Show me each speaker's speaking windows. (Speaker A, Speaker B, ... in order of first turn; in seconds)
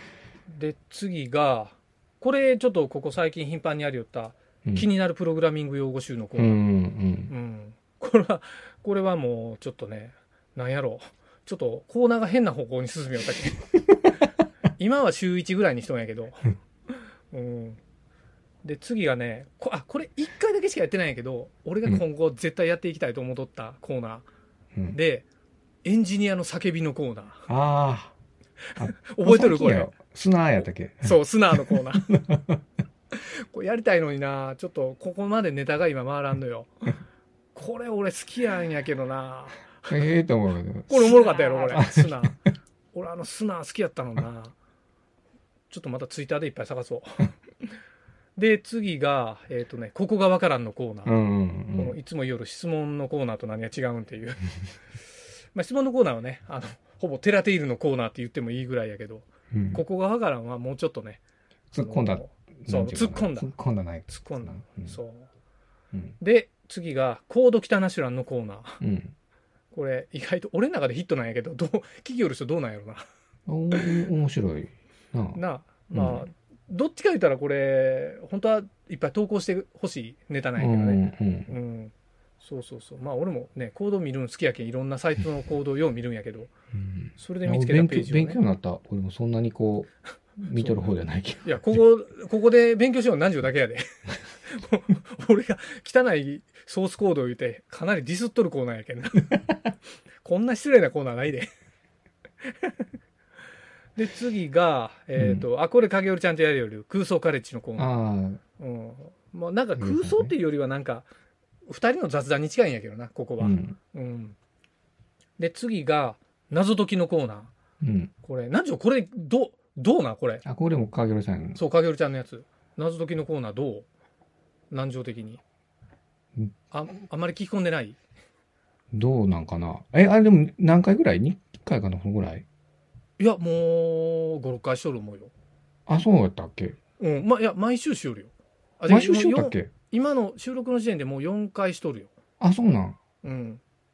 Speaker A: 0.5-6.6, 7.3-13.7, 14.8-16.5, 17.3-17.8, 18.6-24.3, 24.9-25.2, 25.8-27.5, 29.1-29.9, 31.0-32.2, 33.1-36.9, 37.5-39.9, 40.9-42.4, 42.9-44.6, 45.7-47.3, 48.4-51.2, 51.7-54.4, 55.5-61.2, 61.8-63.5, 64.1-65.3, 66.2-68.8, 69.7-73.0, 75.3-86.5, 87.2-88.4, 90.6-90.8, 91.4-93.8, 94.5-99.4, 100.2-101.5, 104.0-107.9, 108.6-111.1, 111.7-114.4, 115.4-117.5, 118.2-120.4, 121.6-123.9, 124.7-125.4, 126.7-128.0, 133.2-135.3, 137.0-142.1, 143.2-143.6
Speaker B: 6.4-7.3, 27.5-28.1, 28.8-32.6, 39.9-42.4, 51.0-52.0, 59.5-59.8, 61.7-65.0, 68.8-69.1, 73.5-75.4, 75.9-76.2, 80.6-81.5, 86.8-91.6, 105.2-105.5, 107.8-108.4, 109.8-110.3, 113.4-113.8, 117.8-118.1, 120.5-121.6, 128.9-132.5, 135.9-136.8, 138.9-139.7, 142.4-143.0